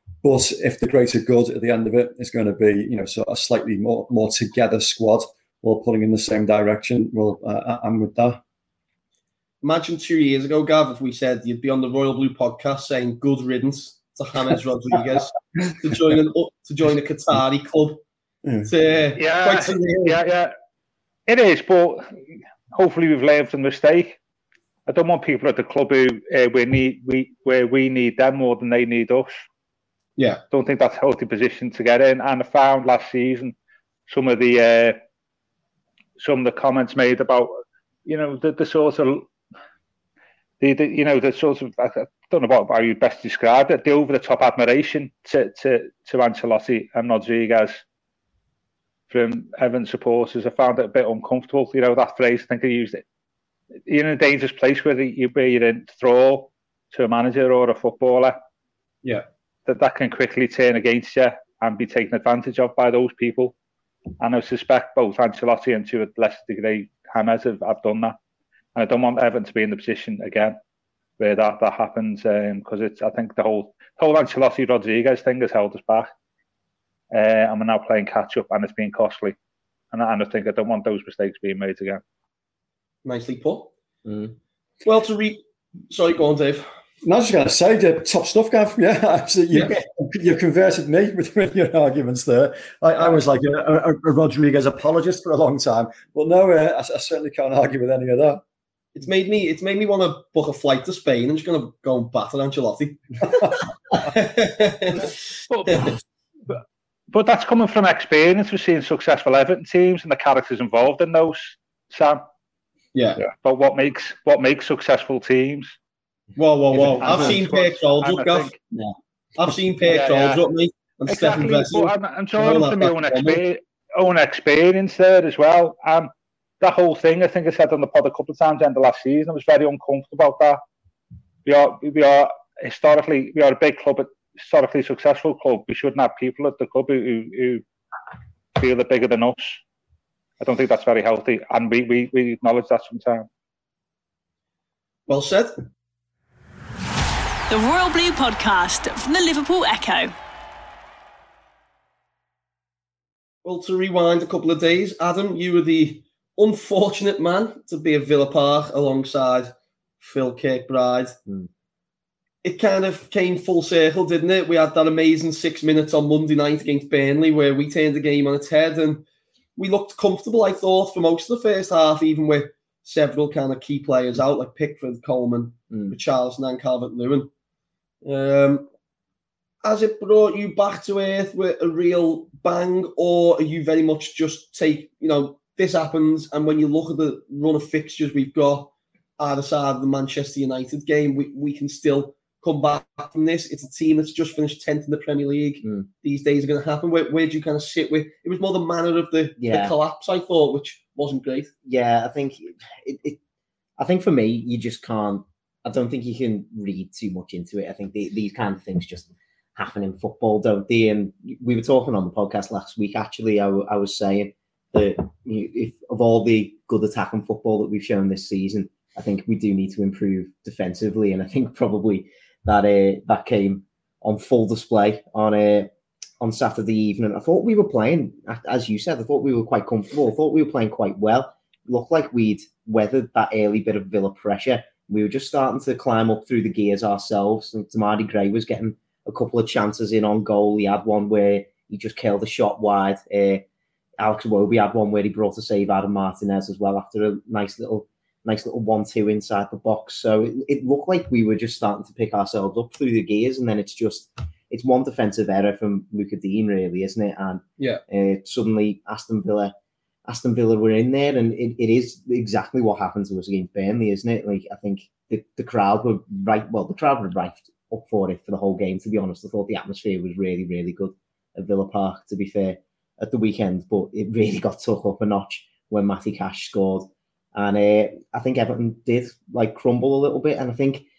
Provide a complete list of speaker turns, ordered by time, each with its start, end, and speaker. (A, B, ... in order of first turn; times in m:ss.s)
0:00.2-0:08.4 A
0:09.6-0:18.0 B
0:18.7-0:20.2 B
0:19.2-0:20.5 C
0:21.3-0:22.1 C
0:22.7-0:24.2 C
0:24.9-0:29.4 C
0:30.2-0:30.4 B
0:30.5-0:33.5 C
0:34.1-0:35.0 C
0:36.2-0:37.5 C
0:38.0-0:39.3 C
0:40.6-0:47.8 C
0:49.1-0:53.0 C
0:53.9-0:58.4 C
0:59.6-1:03.5 C
1:04.2-1:08.2 C
1:08.7-1:10.6 C
1:11.2-1:16.1 C
1:17.1-1:19.4 C
1:19.9-1:22.0 C
1:23.0-1:23.7 B
1:24.0-1:24.4 D
1:24.8-1:26.6 B
1:27.0-1:38.4 A
1:38.9-1:43.5 B
1:44.1-1:45.1 B
1:45.5-1:45.9 C
1:47.1-1:52.2 C
1:52.9-1:53.2 B
1:53.3-1:55.8 C
1:56.4-1:58.5 B
1:56.7-1:57.4 D
1:57.0-1:58.6 C
1:59.4-2:03.4 B
1:59.8-2:00.4 C
2:01.1-2:10.6 C
2:11.4-2:17.6 C
2:18.6-2:19.6 C
2:20.4-2:23.3 C
2:25.1-2:25.5 B
2:27.5-2:30.1 E
2:33.4-2:41.2 B
2:42.4-2:49.0 B
2:49.6-2:57.3 B
2:55.7-2:56.0 D
2:58.0-2:58.7 B
2:59.6-3:21.5 B
3:15.6-3:15.9 D
3:19.4-3:19.7 D
3:21.6-3:23.2 D
3:23.8-4:03.4 D
4:04.0-4:19.5 D
4:20.1-4:40.8 D